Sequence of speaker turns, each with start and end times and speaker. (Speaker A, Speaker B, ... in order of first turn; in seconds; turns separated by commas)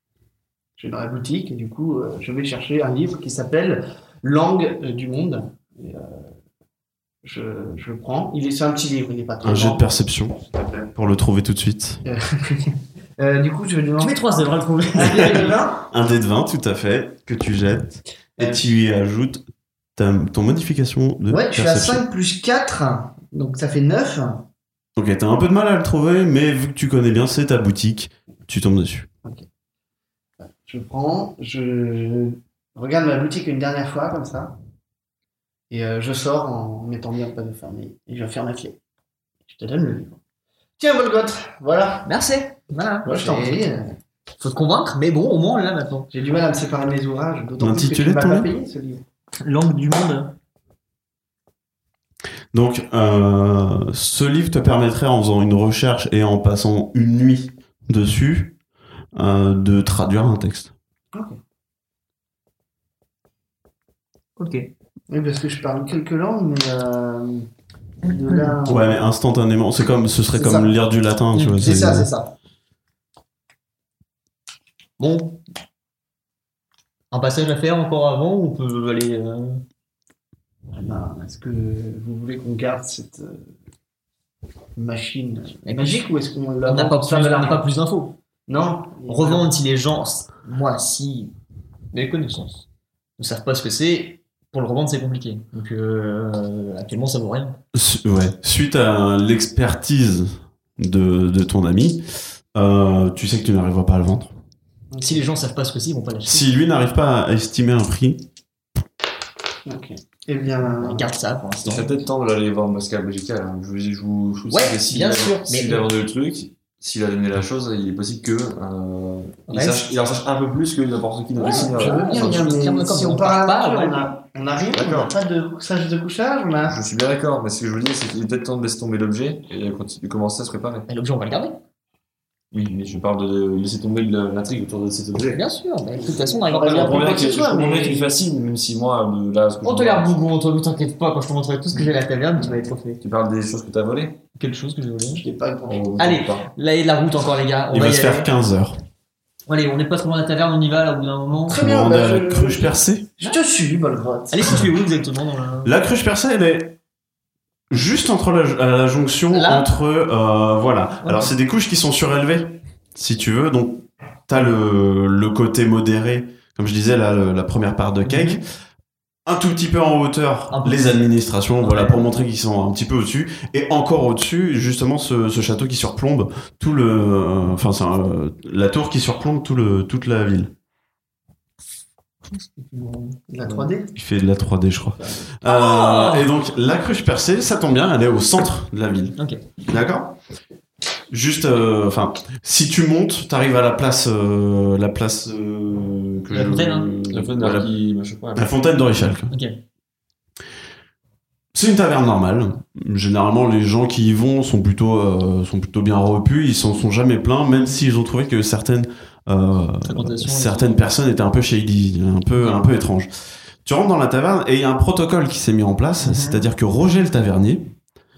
Speaker A: 0.8-6.3, Speaker A: 7.2-9.8, Speaker B: 9.4-12.0, Speaker A: 12.0-14.3, Speaker C: 14.0-15.6, Speaker A: 14.9-15.8, Speaker B: 15.9-19.4, Speaker A: 18.4-18.6, Speaker B: 19.9-22.0, Speaker A: 21.3-24.4, Speaker B: 24.9-29.1, Speaker A: 30.4-34.5, Speaker A: 35.7-38.8, Speaker A: 39.5-40.2, Speaker A: 40.8-42.1, Speaker C: 42.0-43.7, Speaker A: 43.0-44.0, Speaker C: 44.4-46.1, Speaker A: 46.1-49.0, Speaker B: 47.6-48.5, Speaker C: 49.4-50.3, Speaker B: 52.5-58.5, Speaker B: 59.1-60.7, Speaker A: 61.1-61.4, Speaker C: 64.4-64.7, Speaker A: 65.1-67.5, Speaker A: 68.0-68.9, Speaker C: 68.0-68.5, Speaker B: 68.6-72.1, Speaker A: 70.3-70.7, Speaker C: 71.3-72.3, Speaker C: 75.0-75.4, Speaker C: 77.1-79.6, Speaker A: 80.7-83.4, Speaker A: 84.8-87.6, Speaker C: 85.6-86.0, Speaker C: 86.6-88.2, Speaker A: 88.5-89.5, Speaker C: 89.0-91.3, Speaker C: 91.9-92.6, Speaker C: 93.2-97.6, Speaker B: 97.7-102.0, Speaker B: 102.5-104.3, Speaker A: 104.9-105.2, Speaker C: 105.0-106.5, Speaker B: 106.3-108.2, Speaker A: 109.7-111.1, Speaker C: 110.6-111.9, Speaker D: 111.6-122.5, Speaker C: 114.5-115.8, Speaker C: 119.5-119.8, Speaker C: 121.3-124.0, Speaker A: 121.4-126.8, Speaker D: 124.7-125.1, Speaker D: 126.6-130.9, Speaker C: 130.9-131.6, Speaker D: 132.5-135.4, Speaker C: 135.2-137.2, Speaker A: 135.9-138.1, Speaker D: 136.7-140.1, Speaker C: 139.6-143.0, Speaker D: 143.0-144.2, Speaker C: 144.4-145.2, Speaker A: 145.1-145.9, Speaker D: 145.7-146.5, Speaker C: 146.0-148.3, Speaker B: 147.7-148.8, Speaker C: 149.5-151.6, Speaker A: 151.5-154.6, Speaker B: 151.6-153.1, Speaker C: 154.3-155.7, Speaker B: 155.6-156.8, Speaker B: 157.7-168.4, Speaker C: 159.3-159.7, Speaker C: 161.0-161.3, Speaker C: 168.0-168.4, Speaker B: 169.2-180.5, Speaker C: 170.5-171.0, Speaker C: 171.6-172.1, Speaker C: 182.2-183.6, Speaker A: 183.3-183.9, Speaker B: 183.9-190.2, Speaker C: 185.0-186.3, Speaker C: 189.2-189.4, Speaker B: 191.1-197.7, Speaker C: 196.3-196.9, Speaker D: 197.1-198.5, Speaker B: 198.3-199.3, Speaker C: 199.3-199.6, Speaker B: 201.5-213.1, Speaker C: 209.8-210.8, Speaker C: 212.4-212.7, Speaker B: 213.6-217.6, Speaker C: 216.0-216.5